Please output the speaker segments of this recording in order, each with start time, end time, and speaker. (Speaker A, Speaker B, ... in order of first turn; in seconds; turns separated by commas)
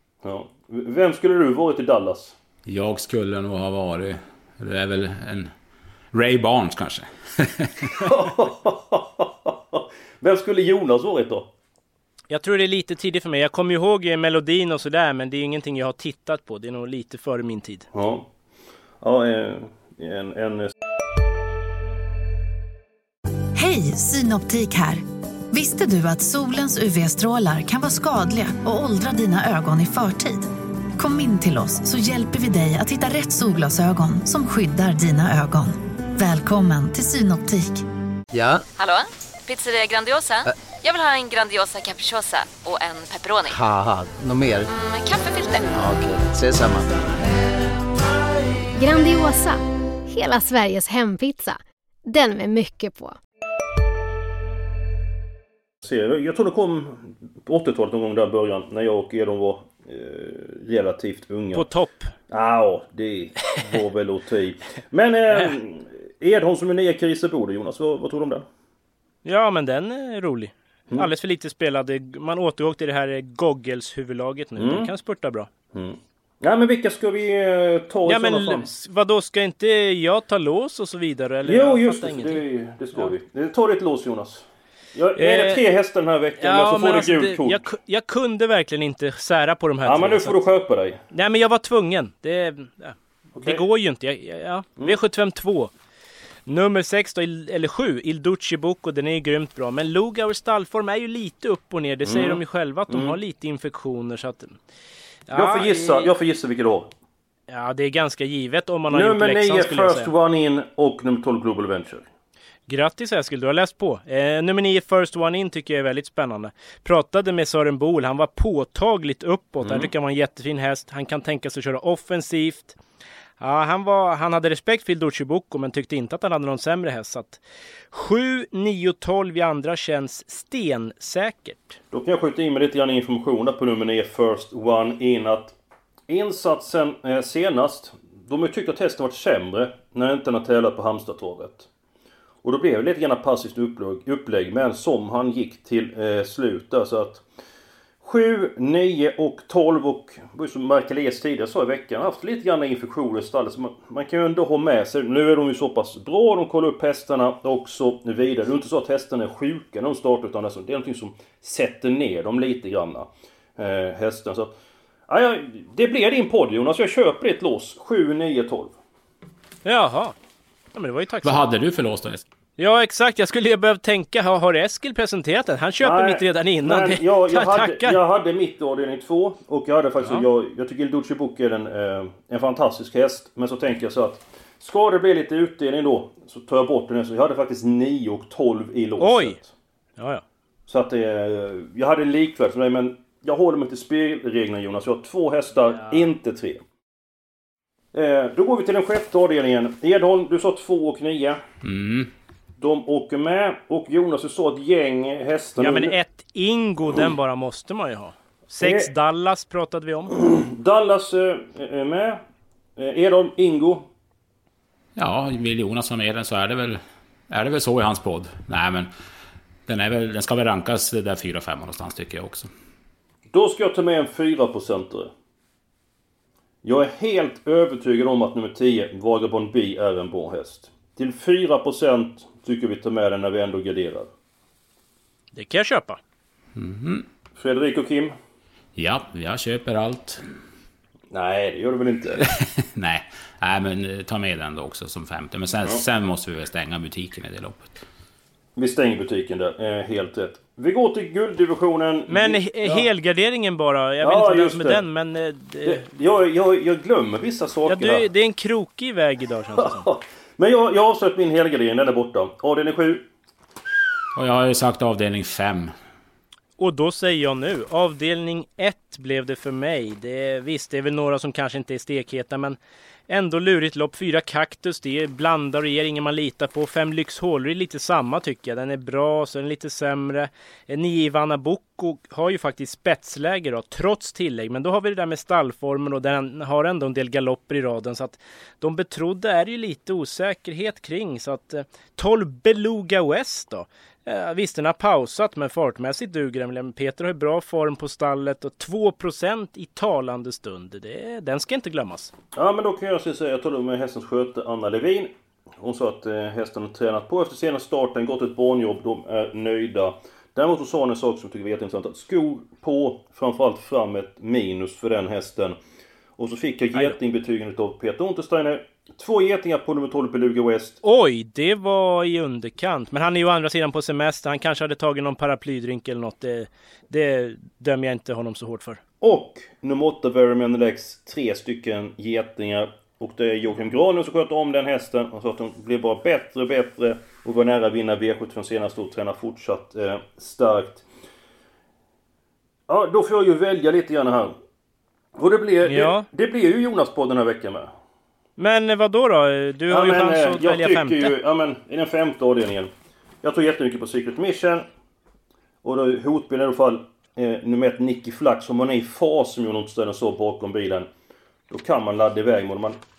Speaker A: 0.2-2.3, Speaker B: 2.6-5.5, Speaker B: 6.1-7.9, Speaker A: 8.0-11.5, Speaker C: 12.3-17.9, Speaker A: 17.9-18.3, Speaker A: 19.0-20.7, Speaker D: 23.5-37.8, Speaker E: 38.3-38.6, Speaker F: 38.8-43.5, Speaker E: 43.5-44.7, Speaker F: 44.7-45.8, Speaker E: 45.7-47.0, Speaker G: 48.8-53.2, Speaker A: 55.8-61.7, Speaker C: 61.5-62.1, Speaker A: 62.3-68.5, Speaker C: 69.2-75.5, Speaker A: 74.6-74.9, Speaker A: 75.7-78.7, Speaker C: 78.0-82.4, Speaker A: 81.4-87.6, Speaker C: 85.2-85.6, Speaker C: 86.4-90.4, Speaker A: 89.8-91.0, Speaker C: 91.1-95.7, Speaker A: 93.3-93.6, Speaker C: 96.5-104.5, Speaker A: 102.0-103.2, Speaker C: 105.3-106.1, Speaker A: 105.3-106.9, Speaker C: 107.5-110.1, Speaker A: 108.9-112.0, Speaker C: 112.7-122.8, Speaker A: 119.6-119.9, Speaker C: 123.4-127.4, Speaker C: 127.9-131.8, Speaker A: 131.9-135.6, Speaker A: 136.1-141.7, Speaker A: 142.4-147.2, Speaker A: 148.0-164.5, Speaker A: 165.1-168.7, Speaker C: 169.6-170.1, Speaker C: 170.7-171.4, Speaker B: 171.2-172.2, Speaker C: 172.6-178.0, Speaker A: 175.8-189.5, Speaker C: 189.0-189.4, Speaker C: 190.0-190.2, Speaker A: 190.7-196.6, Speaker C: 195.7-196.1, Speaker A: 197.9-201.4, Speaker B: 201.6-202.1, Speaker A: 202.6-205.9, Speaker C: 205.6-210.1, Speaker A: 208.6-208.9, Speaker A: 210.2-212.2, Speaker A: 212.8-213.8, Speaker B: 214.9-218.9, Speaker B: 219.7-222.5, Speaker A: 223.3-225.1, Speaker A: 226.6-234.1, Speaker C: 235.3-236.0, Speaker B: 236.6-237.1, Speaker A: 237.4-238.1, Speaker B: 238.8-240.2, Speaker A: 241.1-242.2, Speaker B: 242.3-247.7, Speaker A: 248.6-252.9, Speaker C: 252.1-255.8, Speaker A: 254.0-254.8, Speaker A: 255.6-258.1, Speaker C: 257.7-259.9, Speaker A: 259.6-263.1, Speaker B: 264.1-265.7, Speaker C: 266.6-272.6, Speaker C: 273.1-302.1, Speaker A: 302.3-315.6, Speaker A: 316.2-320.8, Speaker C: 320.8-328.8, Speaker A: 329.0-340.8, Speaker A: 342.7-344.3, Speaker A: 345.2-347.7, Speaker C: 345.7-346.1, Speaker C: 348.4-351.1, Speaker A: 349.7-352.7, Speaker A: 353.2-354.6, Speaker A: 355.6-360.9, Speaker A: 361.5-362.8